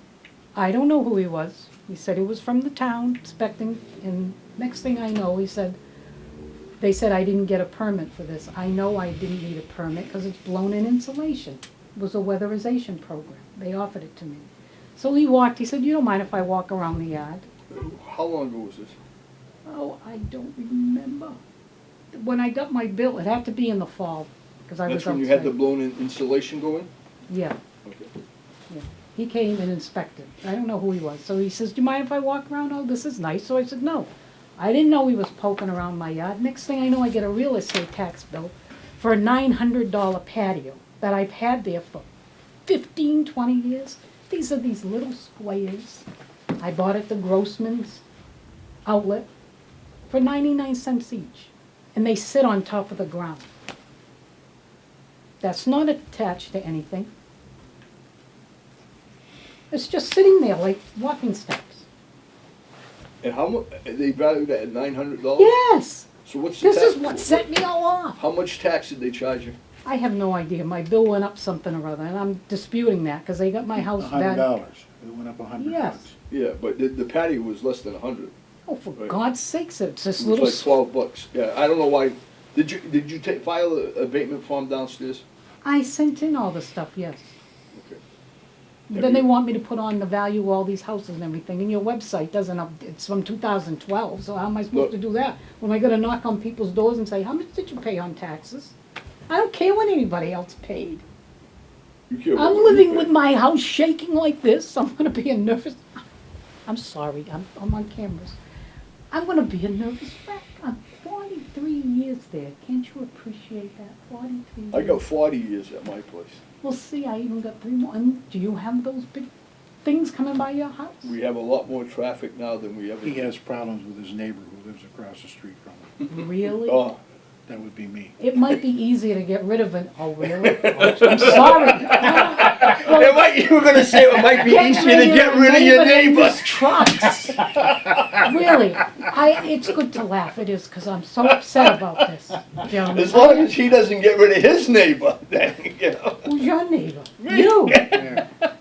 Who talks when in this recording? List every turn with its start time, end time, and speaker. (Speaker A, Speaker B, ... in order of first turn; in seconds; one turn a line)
Speaker A: 0.5-5.8
Speaker A: 6.8-17.5
Speaker B: 17.7-18.9
Speaker A: 19.6-21.4
Speaker A: 22.1-25.5
Speaker B: 24.9-26.9
Speaker A: 27.3-27.6
Speaker B: 27.8-28.1
Speaker A: 28.7-42.1
Speaker A: 42.6-46.0
Speaker A: 46.6-48.0
Speaker A: 48.9-49.3
Speaker A: 50.1-53.5
Speaker A: 55.4-57.1
Speaker A: 59.7-61.9
Speaker B: 63.2-65.6
Speaker A: 65.4-66.1
Speaker B: 66.2-67.5
Speaker A: 66.6-68.2
Speaker B: 68.2-69.6
Speaker A: 69.8-74.5
Speaker C: 73.8-76.2
Speaker A: 75.6-76.0
Speaker B: 76.3-78.3
Speaker A: 78.7-80.7
Speaker B: 80.2-85.2
Speaker A: 85.6-87.3
Speaker B: 87.7-88.0
Speaker A: 88.9-98.8
Speaker B: 88.9-89.2
Speaker A: 99.3-101.0
Speaker B: 102.1-103.1
Speaker A: 102.3-105.9
Speaker A: 106.7-108.4
Speaker A: 109.1-115.0
Speaker B: 114.7-116.4
Speaker A: 116.6-119.3
Speaker A: 119.8-121.1
Speaker B: 121.0-123.3
Speaker C: 123.0-126.0
Speaker A: 126.0-126.9
Speaker B: 126.6-127.0
Speaker C: 127.5-128.2
Speaker A: 128.2-133.3
Speaker B: 130.4-137.0
Speaker A: 134.3-143.5
Speaker B: 142.7-146.3
Speaker A: 146.2-148.2
Speaker B: 147.2-148.5
Speaker C: 147.9-148.2